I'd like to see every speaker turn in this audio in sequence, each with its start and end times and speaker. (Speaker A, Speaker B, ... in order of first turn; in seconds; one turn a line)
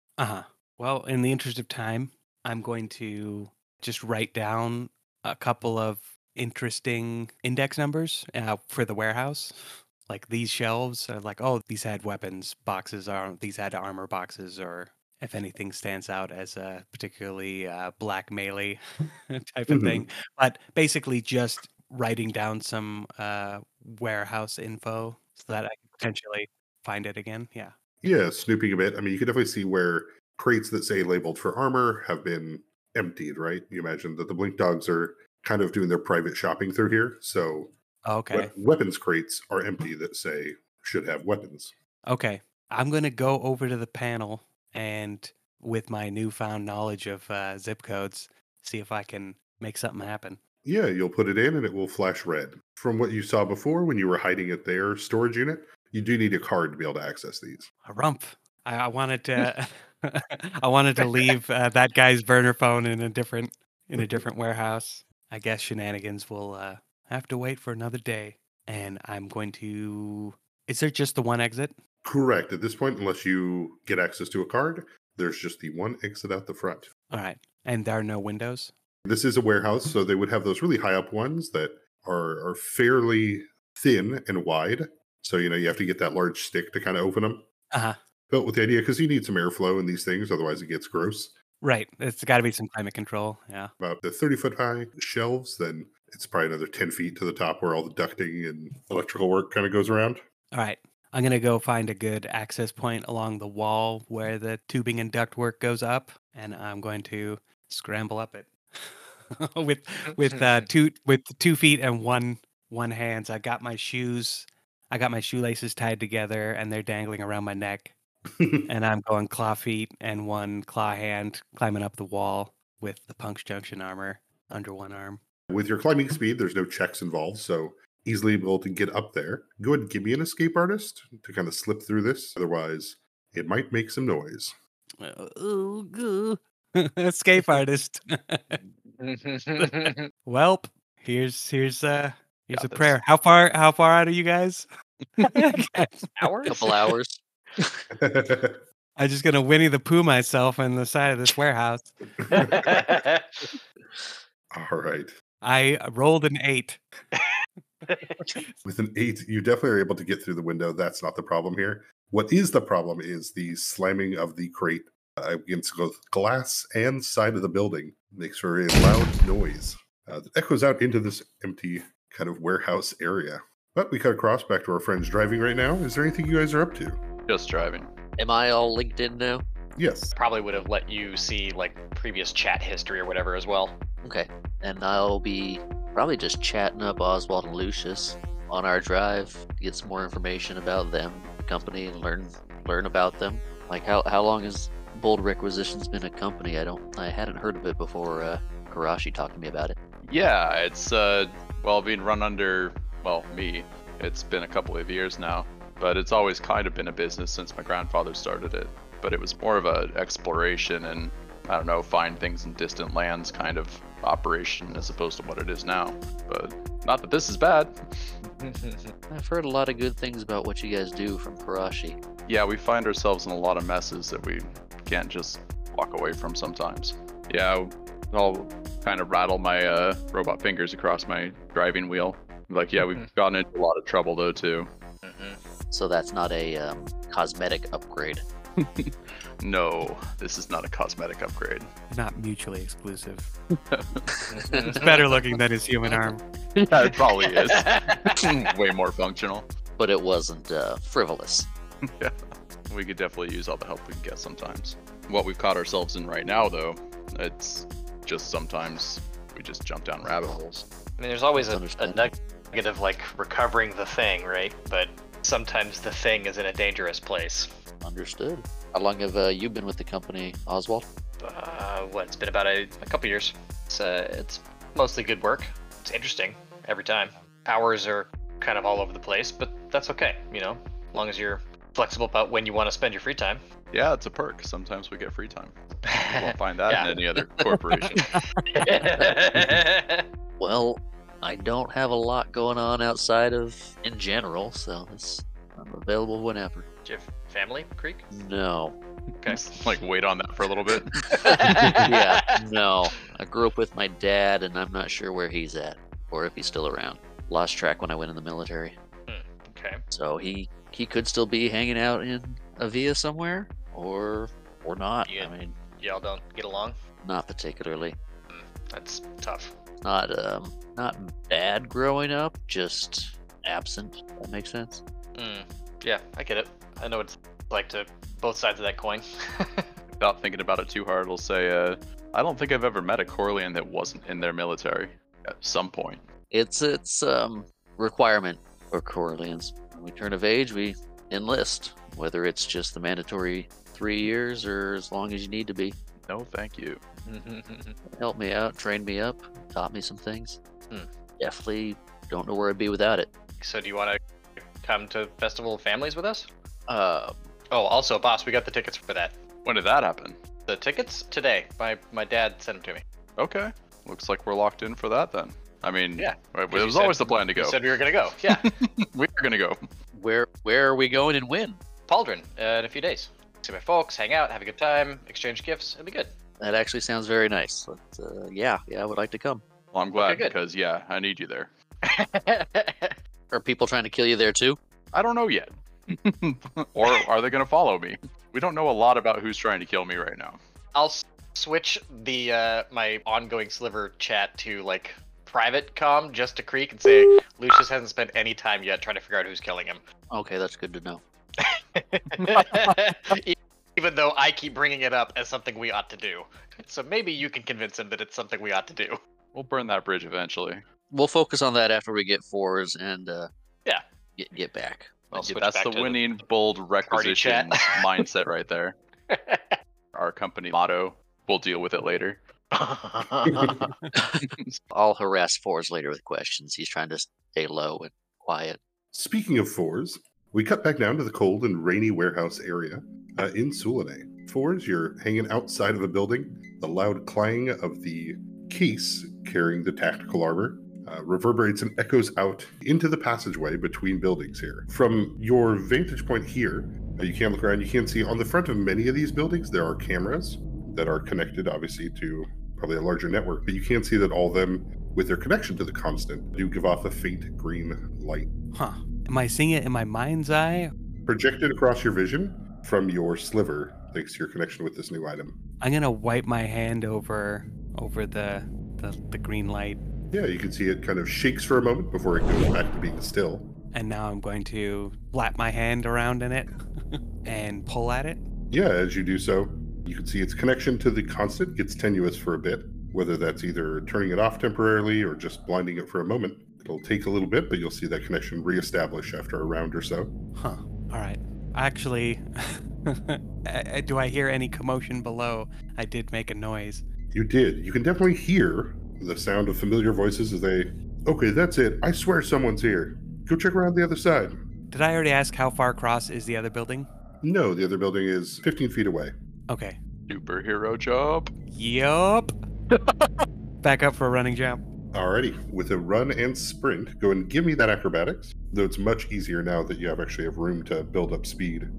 Speaker A: 0.2-27.8
Speaker B: 19.7-20.1
Speaker B: 28.0-37.7
Speaker A: 38.1-38.5
Speaker B: 38.3-41.8
Speaker A: 42.1-50.4
Speaker B: 50.6-57.7
Speaker A: 57.9-71.8
Speaker C: 61.0-61.3
Speaker B: 72.0-76.9
Speaker A: 77.1-78.7
Speaker B: 79.0-87.4
Speaker B: 88.3-91.3
Speaker A: 91.6-93.7
Speaker B: 93.8-100.2
Speaker A: 100.5-118.0
Speaker C: 110.2-110.7
Speaker B: 118.4-118.7
Speaker A: 118.7-125.2
Speaker B: 125.5-134.6
Speaker A: 135.0-138.6
Speaker C: 139.0-140.0
Speaker A: 139.8-144.7
Speaker D: 142.5-143.0
Speaker A: 145.2-146.0
Speaker C: 146.2-146.8
Speaker E: 146.5-147.2
Speaker B: 147.9-148.6
Speaker A: 149.0-151.9
Speaker B: 152.2-152.7
Speaker C: 152.4-153.5
Speaker B: 154.5-155.2
Speaker A: 155.4-156.8
Speaker C: 157.9-158.2
Speaker B: 158.6-177.0
Speaker D: 177.3-177.9
Speaker E: 178.2-179.4
Speaker B: 179.8-180.2
Speaker C: 180.2-183.8
Speaker E: 184.0-199.8
Speaker D: 200.1-218.2
Speaker C: 218.3-218.9
Speaker E: 219.1-222.0
Speaker D: 222.3-234.7
Speaker C: 235.0-235.4
Speaker E: 235.7-238.2
Speaker D: 238.6-241.7
Speaker A: 241.9-243.3
Speaker D: 243.7-244.0
Speaker C: 244.3-245.1
Speaker A: 244.7-246.2
Speaker D: 246.6-249.5
Speaker C: 246.8-248.3
Speaker E: 249.8-251.5
Speaker D: 251.8-252.2
Speaker D: 252.7-260.6
Speaker C: 261.0-267.5
Speaker E: 261.4-262.1
Speaker E: 267.8-270.9
Speaker C: 271.2-283.4
Speaker D: 283.7-288.1
Speaker C: 285.9-286.9
Speaker C: 287.9-290.1
Speaker E: 288.8-289.4
Speaker E: 290.4-296.7
Speaker C: 296.9-298.1
Speaker E: 298.1-298.8
Speaker C: 299.2-299.6
Speaker D: 299.3-301.8
Speaker E: 301.0-308.8
Speaker C: 301.2-302.4
Speaker C: 309.1-309.8
Speaker E: 309.9-315.6
Speaker C: 315.1-316.8
Speaker E: 317.0-318.0
Speaker C: 318.3-319.6
Speaker E: 319.8-324.8
Speaker C: 325.2-329.7
Speaker D: 330.0-336.0
Speaker E: 336.3-345.8
Speaker D: 346.1-346.8
Speaker C: 347.1-347.8
Speaker E: 348.0-350.4
Speaker E: 351.2-353.1
Speaker C: 353.4-354.0
Speaker C: 354.6-356.3
Speaker E: 356.7-357.2
Speaker C: 357.5-359.2
Speaker D: 359.4-360.2
Speaker C: 360.5-362.8
Speaker D: 363.2-367.6
Speaker C: 366.0-368.5
Speaker D: 368.2-369.6
Speaker E: 369.9-371.6
Speaker C: 371.9-376.1
Speaker E: 376.4-379.4
Speaker D: 379.7-381.5
Speaker C: 380.0-380.3
Speaker C: 381.9-383.0
Speaker E: 383.3-384.6
Speaker D: 384.9-390.4
Speaker C: 390.8-399.8
Speaker E: 400.1-401.0
Speaker C: 401.4-409.0
Speaker D: 409.3-410.6
Speaker E: 410.9-413.3
Speaker E: 414.2-415.0
Speaker C: 415.1-416.1
Speaker D: 415.1-418.8
Speaker C: 416.9-417.6
Speaker C: 419.1-419.6
Speaker D: 419.9-422.2
Speaker C: 422.5-423.7
Speaker E: 424.7-428.6
Speaker B: 428.9-458.3
Speaker A: 458.5-460.7
Speaker B: 461.1-465.4
Speaker A: 465.6-469.8
Speaker B: 470.1-473.5
Speaker A: 473.7-478.2
Speaker B: 478.5-490.1
Speaker A: 490.4-496.9
Speaker B: 497.1-504.4
Speaker A: 504.7-506.9
Speaker B: 507.2-509.1
Speaker A: 509.5-509.8
Speaker D: 510.1-511.3
Speaker A: 511.5-512.3
Speaker A: 513.6-514.6
Speaker B: 514.9-521.7